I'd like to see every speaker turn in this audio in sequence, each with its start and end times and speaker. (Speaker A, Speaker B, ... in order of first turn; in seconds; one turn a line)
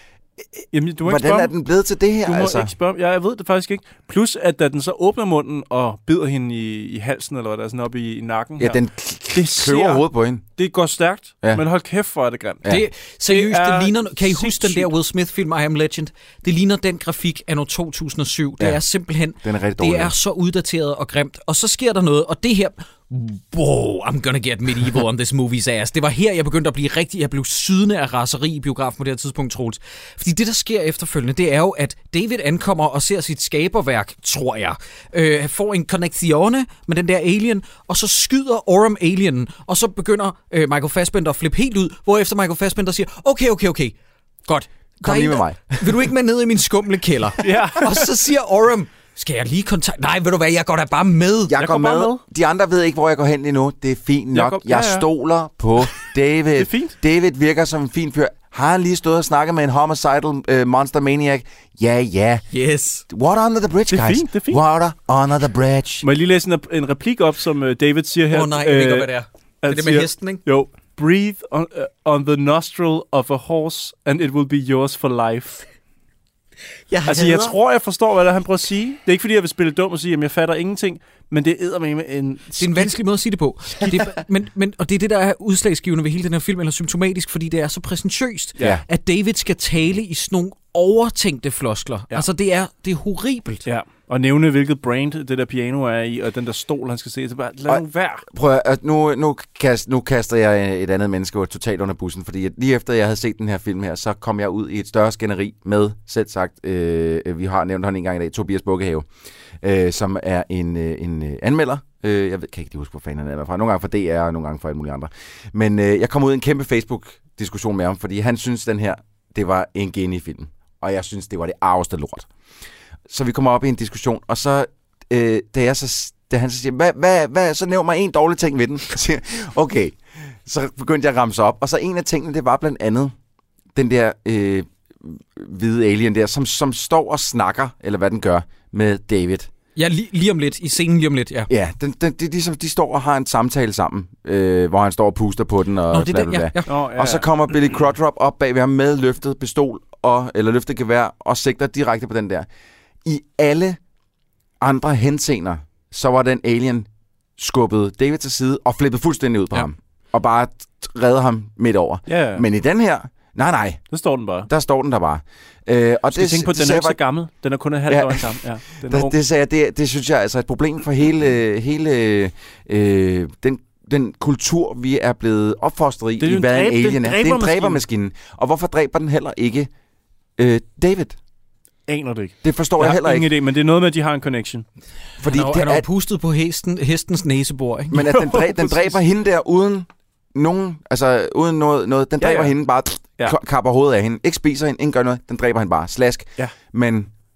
Speaker A: 0.7-1.5
Speaker B: 1.0-2.7
Speaker A: 2.2-10.0
Speaker B: 8.6-10.5
Speaker A: 10.6-14.9
Speaker C: 12.7-43.9
Speaker B: 19.4-20.1
Speaker C: 44.5-51.5
Speaker B: 45.0-45.9
Speaker A: 47.4-48.0
Speaker B: 51.5-62.5
Speaker A: 51.5-52.2
Speaker A: 54.3-55.1
Speaker A: 56.6-56.9
Speaker C: 62.5-63.0
Speaker B: 63.1-66.0
Speaker A: 63.9-64.6
Speaker A: 66.0-69.1
Speaker C: 68.3-70.4
Speaker A: 69.6-75.6
Speaker C: 76.9-77.5
Speaker A: 77.1-83.0
Speaker C: 82.6-93.6
Speaker A: 93.7-98.2
Speaker B: 97.7-109.1
Speaker B: 109.6-122.3
Speaker B: 123.1-133.1
Speaker B: 133.7-139.5
Speaker C: 139.8-141.5
Speaker B: 141.5-152.5
Speaker C: 145.9-146.7
Speaker A: 146.7-147.4
Speaker B: 153.0-153.8
Speaker B: 154.6-163.9
Speaker A: 162.1-162.4
Speaker A: 163.9-164.5
Speaker B: 164.4-167.0
Speaker A: 166.1-169.1
Speaker B: 167.9-179.7
Speaker A: 176.2-177.8
Speaker B: 180.4-181.2
Speaker A: 181.9-184.6
Speaker B: 182.4-183.3
Speaker B: 185.2-185.8
Speaker C: 185.3-188.0
Speaker B: 187.9-197.1
Speaker A: 188.0-188.9
Speaker A: 192.2-192.5